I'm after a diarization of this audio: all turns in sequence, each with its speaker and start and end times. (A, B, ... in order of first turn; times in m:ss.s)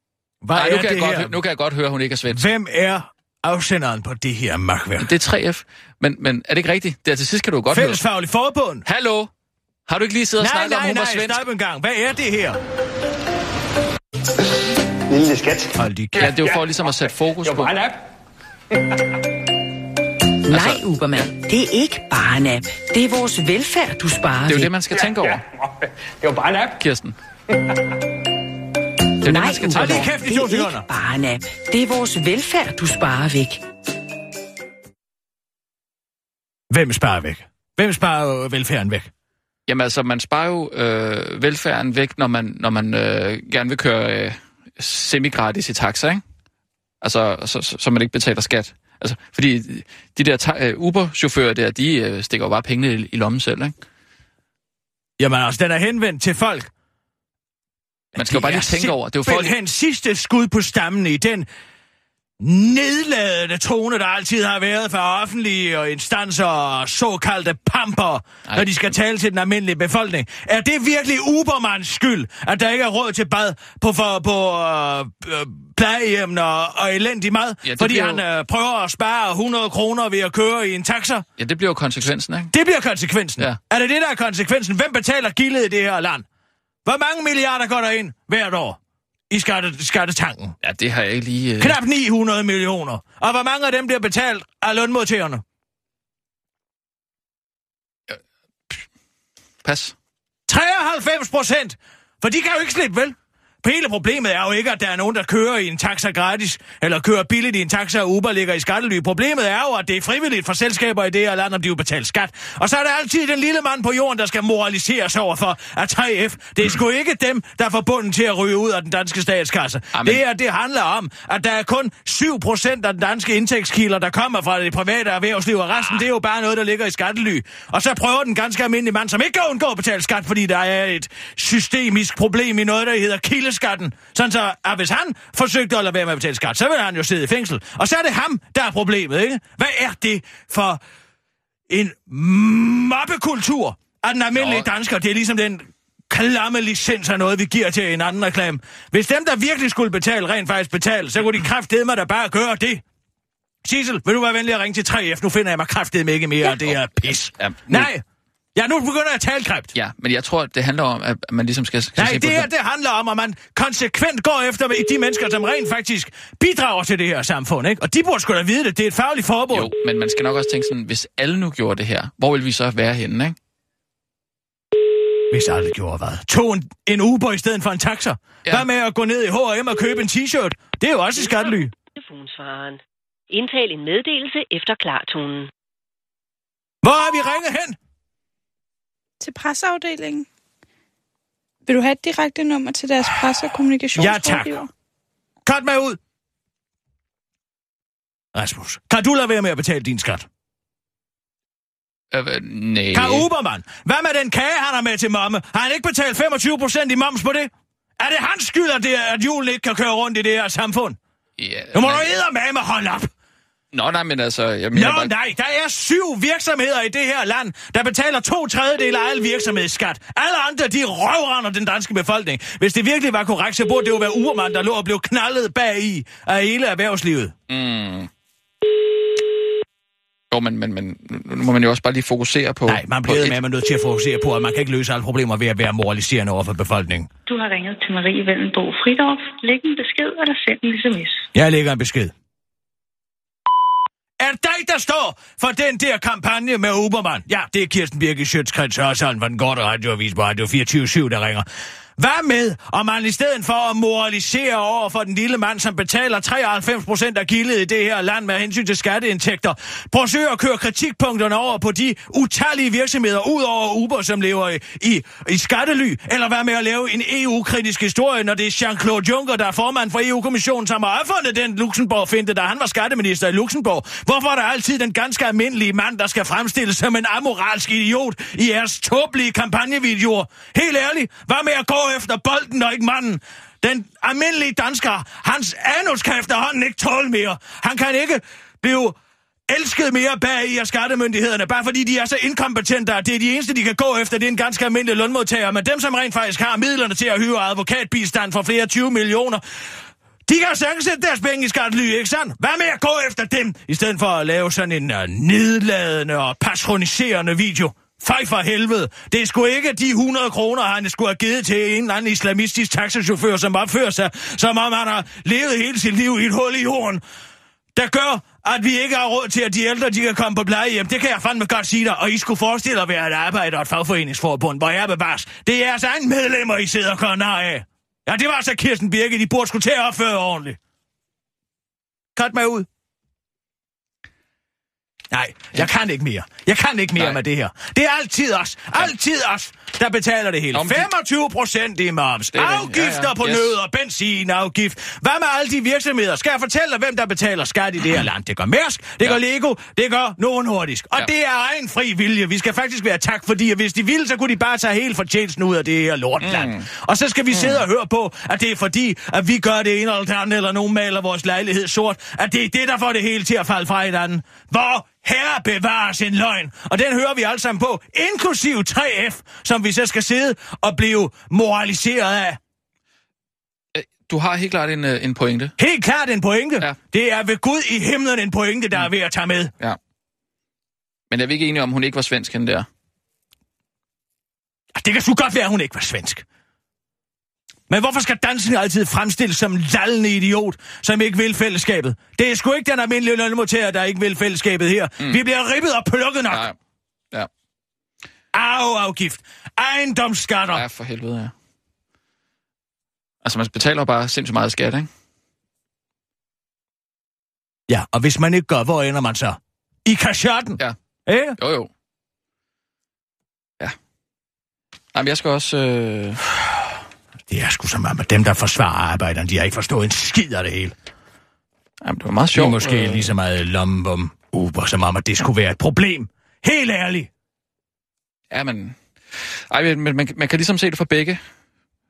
0:00.4-0:01.4 A
0:00.5-0:02.5 B
0:02.3-0:05.2 A
0:05.0-0:08.0 B
0:07.7-0:08.8 A
0:08.9-0:09.3 B
0:09.9-0:11.4 B
0:10.4-0:12.6 A
0:15.1-0:18.0 C
0:15.8-0:16.3 A
0:16.2-0:17.8 B
0:18.7-0:19.1 C
0:20.5-0:24.7 D
0:20.5-0:21.3 B
0:24.5-0:25.4 B
0:25.0-0:26.8 C
0:26.8-0:27.2 B
0:27.5-0:27.8 C
0:29.2-0:30.2 B
0:29.2-0:33.6 D
0:29.7-0:30.9 A
0:36.7-0:39.1 A
0:39.7-0:46.2 B
0:47.0-0:53.8 B
0:55.2-0:56.7 A
0:58.1-0:59.6 B
0:58.2-1:01.5 A
1:02.4-1:21.2 A
1:17.6-1:18.2 B
1:21.4-1:22.5 B
1:22.5-1:26.2 A
1:26.8-1:28.8 A
1:29.3-1:30.6 A
1:30.6-1:31.8 B
1:31.6-1:35.4 A
1:39.6-1:40.0 B
1:40.5-2:20.8 A
1:59.9-2:00.2 B
2:21.7-2:32.8 A
2:24.4-2:24.7 B
2:33.6-2:38.0 A
2:37.4-2:37.9 B
2:38.6-2:39.7 A
2:39.8-2:42.5 B
2:42.0-2:49.7 A
2:49.5-2:53.4 B
2:55.3-3:01.7 A
3:01.2-3:05.5 E
3:06.8-3:07.8 A
3:09.2-3:10.3 F
3:11.7-3:14.7 F
3:14.0-3:14.6 A
3:15.5-3:16.0 A
3:18.3-3:20.3 A
3:22.1-3:23.3 B
3:22.9-3:31.0 A
3:31.4-3:32.2 B
3:31.7-3:33.1 A
3:33.7-3:35.1 B
3:34.7-3:47.3 A
3:47.5-3:48.1 B
3:50.3-3:53.4 B
3:52.7-3:57.1 A
3:57.3-4:01.3 G
4:01.3-4:02.1 A
4:04.2-4:11.5 A
4:12.0-4:49.0 A
4:49.5-4:59.4 A
5:00.3-5:17.0 A
5:17.8-5:30.6 A
5:32.2-5:32.7 A
5:35.1-6:12.4 A
5:40.5-5:40.9 B
5:42.3-5:43.6 B
5:56.2-5:56.7 B
5:57.3-5:57.6 B
6:13.8-6:15.6 B
6:15.6-6:19.5 A
6:21.1-6:22.7 B
6:24.8-6:26.2 A
6:27.7-6:36.5 A
6:36.3-6:36.6 B
6:38.3-6:40.6 A
6:40.5-6:41.3 B
6:43.2-6:44.9 B
6:47.7-6:51.4 A
6:51.4-6:51.7 B
6:54.9-6:56.2 B
6:57.3-7:00.7 A
7:01.8-7:03.1 B
7:02.3-7:07.1 A
7:08.3-7:11.2 B